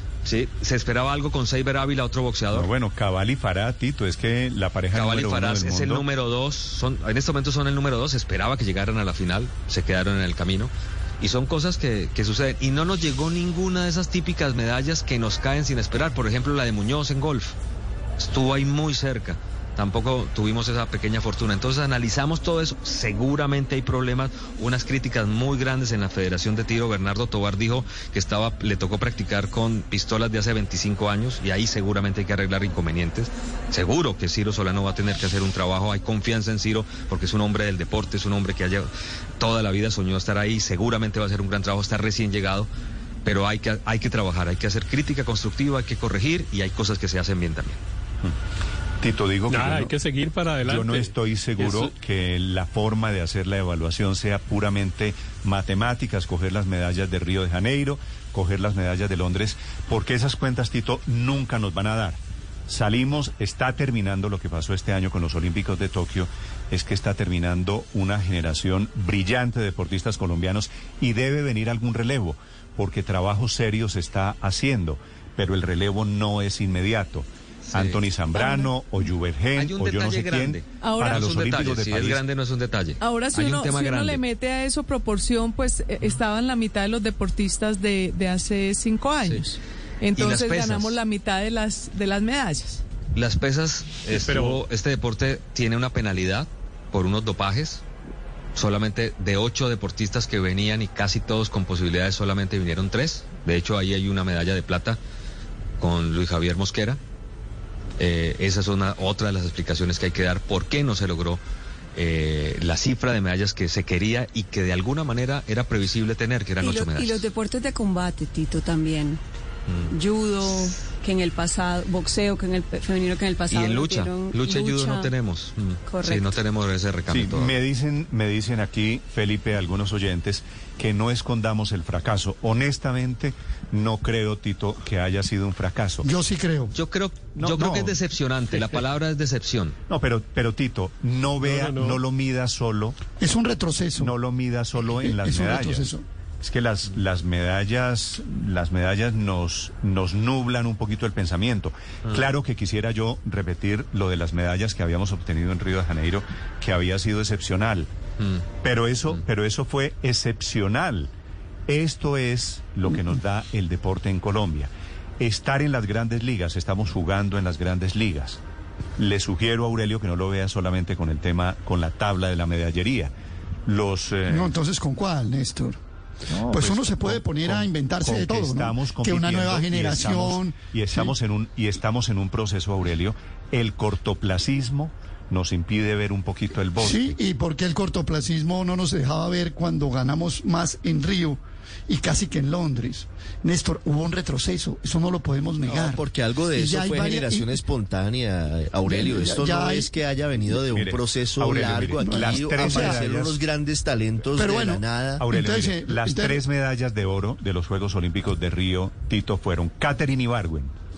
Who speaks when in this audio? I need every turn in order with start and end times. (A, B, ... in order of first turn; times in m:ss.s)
0:00.2-0:02.7 A
0:02.5-0:06.0 B
0:04.9-0:17.6 A
0:18.2-0:42.7 A
0:43.2-0:47.8 A
0:49.0-0:50.0 B
0:49.5-0:51.9 C
0:50.6-1:22.2 B
1:17.7-1:18.0 A
1:19.5-1:24.2 A
1:20.8-1:21.3 D
1:23.0-1:32.8 D
1:29.2-1:29.5 A
1:30.1-1:31.0 A
1:33.1-1:37.8 A
1:34.1-1:34.6 C
1:38.6-1:45.0 A
1:45.8-1:47.0 A
1:48.0-1:51.4 A
1:51.9-1:57.3 A
1:56.6-1:59.2 E
1:59.9-2:05.1 E
2:03.5-2:07.5 A
2:05.9-2:06.4 E
2:07.1-2:16.0 B
2:16.0-2:16.8 F
2:16.7-2:19.8 A
2:17.4-2:18.0 B
2:18.5-2:18.8 B
2:19.9-2:23.0 B
2:21.4-2:22.0 C
2:23.2-2:24.2 F
2:24.0-2:25.9 B
2:24.8-2:26.0 F
2:26.4-2:37.9 B
2:38.2-2:38.4 A
2:38.6-2:41.1 B
2:41.7-2:48.4 B
2:49.0-2:53.1 B
2:53.6-2:54.5 B
2:54.3-2:55.8 F
2:56.3-3:07.2 B
2:56.5-3:01.1 F
3:06.8-3:17.7 F
3:15.6-3:25.2 G
3:18.8-3:20.0 F
3:20.5-3:23.4 B
3:21.9-3:23.1 F
3:24.3-3:26.4 F
3:25.2-3:30.7 B